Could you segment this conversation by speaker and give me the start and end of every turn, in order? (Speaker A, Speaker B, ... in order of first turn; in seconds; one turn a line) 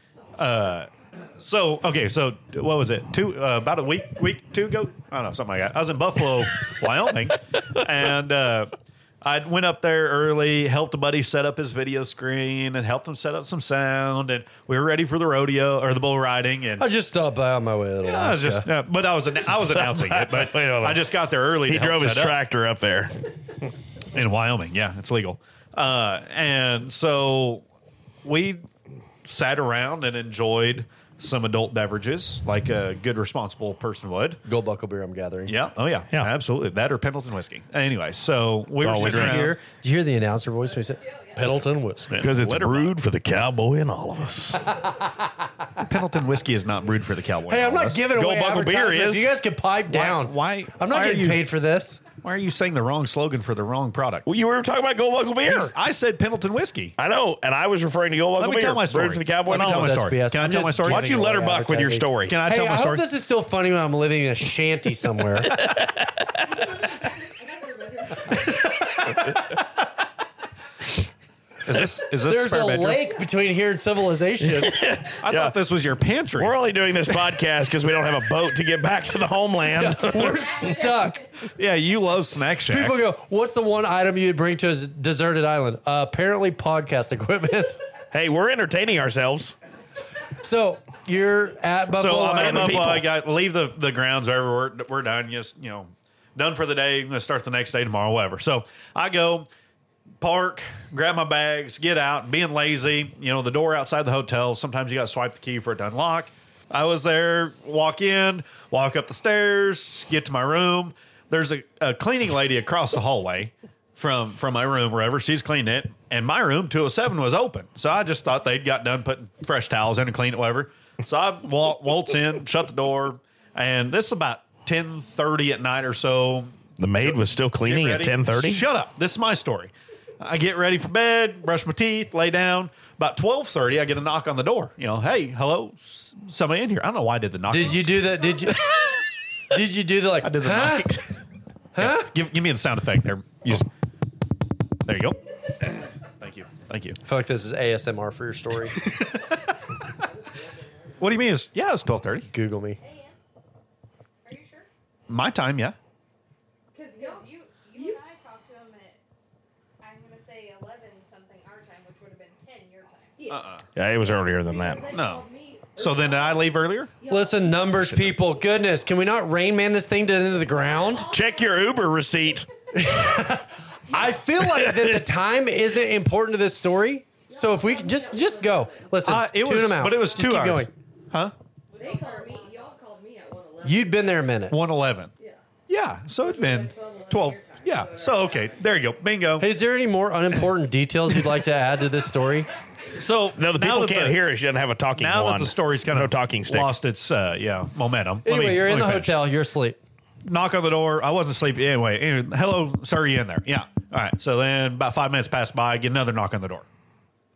Speaker A: 0.3-16.9
Speaker B: 16.8-18.7
Speaker A: 18.0-22.4
Speaker C: 19.5-23.1
Speaker A: 24.1-27.6
Speaker A: 28.2-28.6
Speaker A: 29.2-34.4
Speaker B: 34.4-35.5
Speaker A: 35.5-39.6
Speaker C: 38.8-39.5
Speaker B: 39.0-42.1
Speaker D: 41.0-41.6
Speaker A: 42.0-43.0
Speaker C: 42.2-44.7
Speaker B: 44.7-45.1
Speaker A: 45.8-48.1
Speaker B: 47.5-52.0
Speaker C: 48.1-49.3
Speaker A: 49.9-51.4
Speaker A: 52.2-54.2
Speaker C: 54.2-55.7
Speaker A: 55.4-57.0
Speaker C: 57.0-60.1
Speaker A: 58.4-61.1
Speaker B: 59.5-65.7
Speaker C: 60.8-62.4
Speaker A: 62.2-63.1
Speaker C: 65.5-66.0
Speaker E: 67.4-68.2
Speaker A: 71.6-73.1
Speaker B: 72.2-74.7
Speaker C: 74.4-75.5
Speaker A: 75.2-76.5
Speaker C: 76.4-80.7
Speaker B: 79.7-81.2
Speaker A: 81.5-83.0
Speaker B: 82.7-87.8
Speaker C: 88.1-89.5
Speaker B: 90.4-93.0
Speaker A: 91.9-99.5
Speaker C: 92.3-93.0
Speaker A: 100.2-138.5
Speaker C: 126.8-128.6
Speaker B: 137.5-138.6
Speaker B: 139.5-141.0
Speaker A: 140.2-141.2
Speaker B: 141.8-142.1
Speaker A: 141.8-143.7
Speaker A: 144.8-147.0
Speaker B: 147.0-148.8
Speaker A: 148.8-149.5
Speaker E: 150.3-151.0
Speaker A: 151.0-152.3
Speaker B: 152.3-152.8
Speaker D: 152.8-153.2
Speaker D: 154.2-154.7
Speaker A: 155.1-155.8
Speaker E: 156.7-158.0
Speaker D: 156.9-159.0
Speaker D: 159.8-163.3
Speaker A: 163.3-163.6
Speaker C: 163.7-164.9
Speaker E: 164.4-167.7
Speaker A: 164.9-166.9
Speaker B: 167.0-171.1
Speaker A: 167.8-168.1
Speaker E: 170.7-171.6
Speaker C: 171.1-172.5
Speaker B: 172.7-180.7
Speaker C: 174.4-174.9
Speaker E: 177.3-178.9
Speaker A: 179.0-181.3
Speaker D: 181.7-182.8
Speaker E: 181.8-183.9
Speaker B: 183.6-184.6
Speaker A: 184.5-185.1
Speaker A: 185.7-189.5
Speaker E: 186.2-188.6
Speaker B: 189.4-192.5
Speaker A: 192.9-194.2
Speaker C: 193.3-196.7
Speaker A: 194.9-199.2
Speaker B: 198.2-199.8
Speaker A: 200.2-206.7